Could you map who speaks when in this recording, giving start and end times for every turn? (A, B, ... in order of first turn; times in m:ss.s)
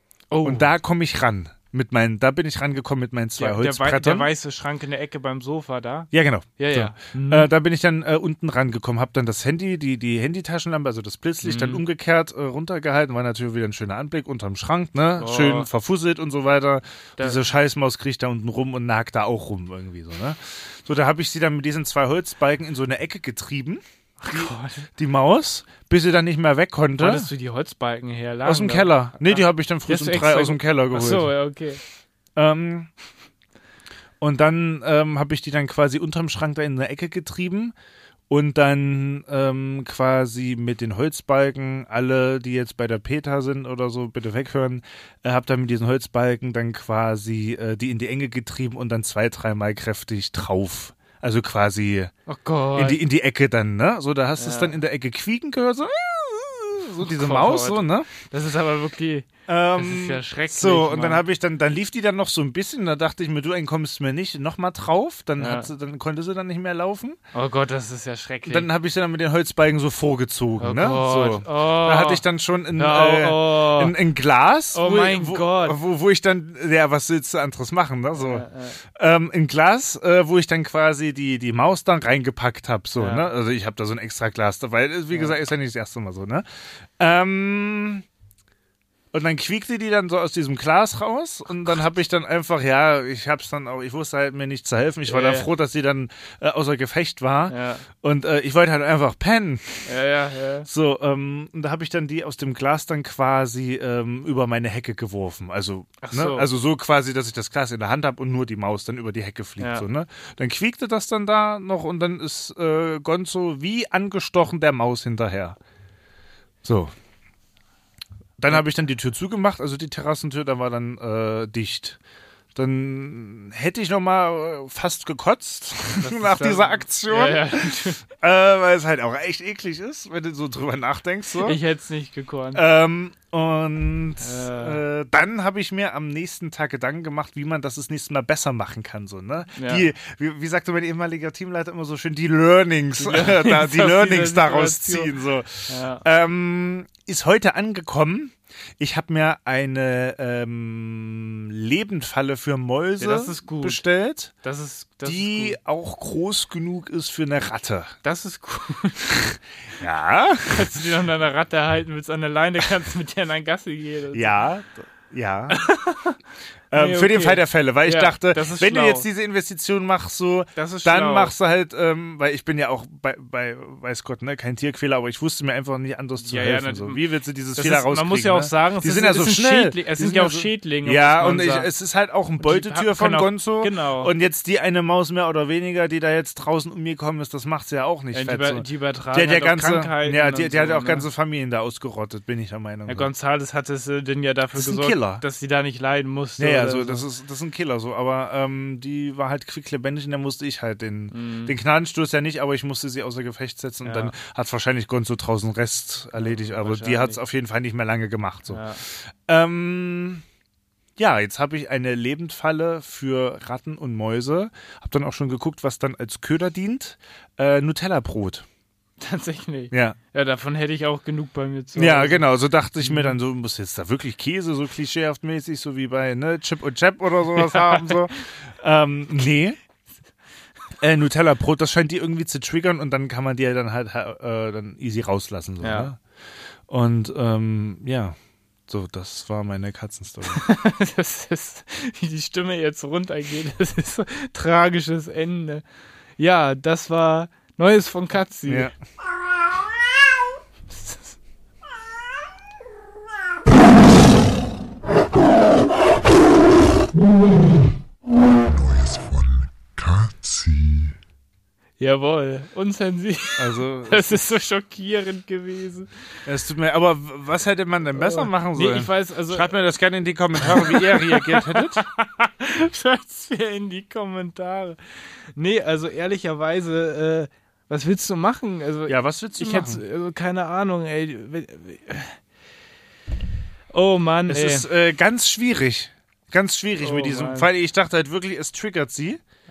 0:00.3-0:00.7 A
0:00.4-0:04.3 B
0:03.4-0:07.5 A
0:06.1-0:27.3 B
0:11.4-0:11.8 A
0:15.2-0:15.7 A
0:24.2-0:24.9 A
0:27.0-0:31.8 A
0:28.4-0:31.3 B
0:32.4-0:32.9 B
0:34.2-0:37.7 B
0:38.3-0:52.1 B
0:52.3-0:53.0 A
0:52.8-0:58.1 B
0:54.4-0:54.8 A
0:57.0-1:01.2 A
0:59.5-1:07.2 B
1:05.4-1:05.7 A
1:07.3-1:08.7 A
1:08.5-1:26.4 B
1:10.6-1:12.2 A
1:12.8-1:14.0 A
1:14.7-1:15.8 A
1:18.2-1:18.8 A
1:23.0-1:23.3 A
1:27.0-1:28.0 B
1:29.1-1:39.9 B
1:35.1-1:35.5 A
1:37.5-1:37.8 A
1:39.9-1:40.7 A
1:40.7-1:55.6 B
1:46.0-1:46.5 A
1:49.6-1:49.8 A
1:56.6-1:56.9 B
1:58.4-2:02.0 B
2:02.6-2:11.6 B
2:06.0-2:08.0 A
2:11.4-2:12.6 A
2:12.5-2:34.3 B
2:14.2-2:14.8 A
2:19.6-2:19.9 A
2:23.0-2:25.1 A
2:25.7-2:26.0 A
2:33.0-2:33.8 A
2:34.4-2:35.6 A
2:35.0-2:38.0 B
2:38.0-2:39.3 A
2:39.1-2:40.9 B
2:40.5-2:44.4 A
2:44.1-2:45.6 B
2:45.5-2:46.2 A
2:46.7-3:13.1 B
2:46.7-2:49.1 A
2:50.6-2:51.3 A
2:56.2-2:57.0 A
2:57.6-3:01.7 A
3:02.4-3:04.1 A
3:08.1-3:11.1 A
3:12.9-3:17.0 A
3:14.6-3:15.2 B
3:16.4-3:30.2 B
3:21.1-3:21.5 A
3:23.8-3:24.2 A
3:26.2-3:27.2 A
3:28.5-3:28.8 A
3:31.0-3:38.4 B
3:39.0-3:42.3 A
3:39.7-3:40.0 B
3:41.8-3:49.6 B
3:42.8-3:43.2 A
3:47.4-3:48.0 A
3:50.8-3:56.0 B
3:55.6-3:55.9 A
3:56.7-3:58.2 B
3:58.7-4:00.4 B
4:00.3-4:05.6 A
4:06.2-4:08.7 A
4:08.5-4:08.7 B
4:10.7-4:11.2 A
4:18.4-4:21.0 C
4:21.8-4:25.9 A
4:23.4-4:24.2 B
4:26.3-4:31.8 B
4:28.0-4:29.5 A
4:30.4-4:34.8 A
4:35.4-4:42.2 A
4:38.9-4:39.8 B
4:43.7-4:44.7 A
4:44.3-4:49.2 B
4:46.8-4:47.5 A